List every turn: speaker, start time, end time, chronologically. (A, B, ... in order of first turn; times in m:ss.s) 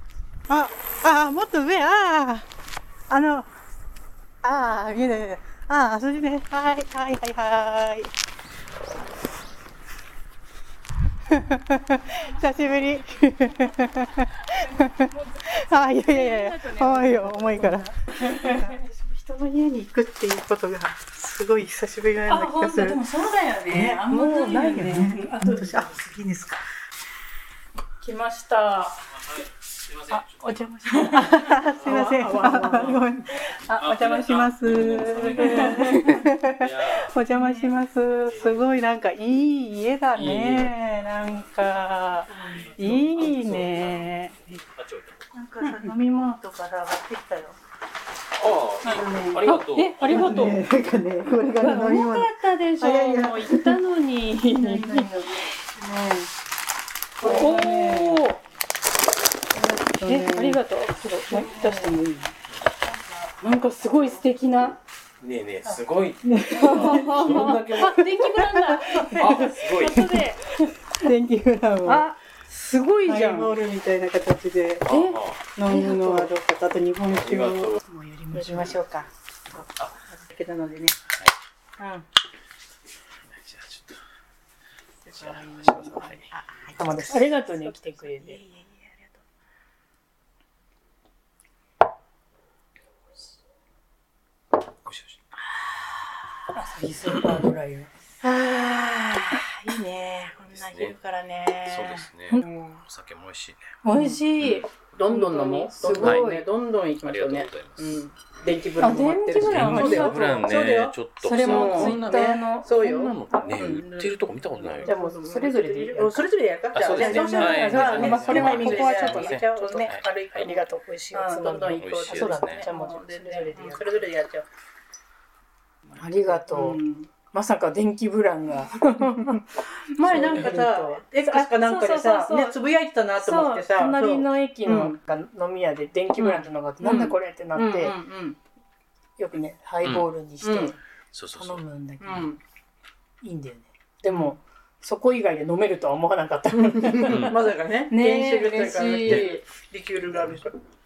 0:00.5-0:02.4 A
0:03.1-0:03.5 A
0:04.4-0:08.1 A
0:11.3-0:23.0 A
0:14.6-0:18.8 B
0:22.3-0:26.1 B
0:23.7-0:26.6 A
0:28.0-0:29.2 B
0:29.9-0:30.5 C
0:30.1-0:44.6 A
0:30.8-0:33.0 B
0:33.8-0:37.2 C
0:35.2-0:36.3 B
0:37.4-0:37.7 B
0:38.3-0:38.6 C
0:40.2-0:40.7 C
0:42.5-0:44.0 C
0:44.8-0:45.2 C
0:45.3-0:47.6 A
0:45.6-0:45.9 B
0:48.4-0:50.5 C
0:48.8-0:53.8 A
0:48.8-0:50.7 B
0:51.6-0:55.6 B
0:54.5-0:56.3 A
0:57.2-0:58.2 A
0:57.2-0:58.4 B
0:59.5-1:00.6 A
1:00.0-1:02.2 B
1:01.3-1:02.3 A
1:03.4-1:04.8 B
1:05.2-1:08.1 C
1:06.2-1:09.4 A
1:06.5-1:10.7 B
1:09.2-1:10.1 C
1:11.0-1:12.0 A
1:11.8-1:13.5 B
1:13.0-1:14.9 A
1:14.9-1:15.4 C
1:14.9-1:16.3 B
1:15.6-1:17.8 A
1:17.1-1:17.8 C
1:17.8-1:18.8 B
1:18.3-1:21.0 A
1:21.8-1:22.0 A
1:23.3-1:24.0 C
1:25.0-1:29.2 A
1:25.2-1:26.3 C
1:26.8-1:28.4 B
1:34.8-1:35.2 C
1:35.8-1:36.2 A
1:36.6-1:37.9 B
1:38.2-1:42.8 A
1:40.5-1:41.0 C
1:41.6-1:43.6 C
1:43.8-1:46.4 B
1:43.9-1:44.2 A
1:44.8-2:04.5 A
1:45.9-1:46.3 C
1:47.0-1:48.0 C
1:48.8-1:50.6 B
1:49.4-1:55.0 C
1:51.2-1:53.7 B
1:54.8-2:04.1 B
1:56.8-2:00.5 C
2:01.7-2:02.7 C
2:05.9-2:06.8 B
2:06.4-2:07.1 A
2:07.3-2:12.6 B
2:10.0-2:15.0 A
2:10.2-2:10.5 C
2:13.2-2:18.0 B
2:16.2-2:18.4 A
2:19.2-2:20.8 B
2:20.4-2:20.8 A
2:21.1-2:21.6 C
2:21.3-2:22.3 B
2:22.0-2:22.4 A
2:23.2-2:27.4 B
2:26.6-2:30.6 A
2:27.1-2:27.4 C
2:27.9-2:29.4 B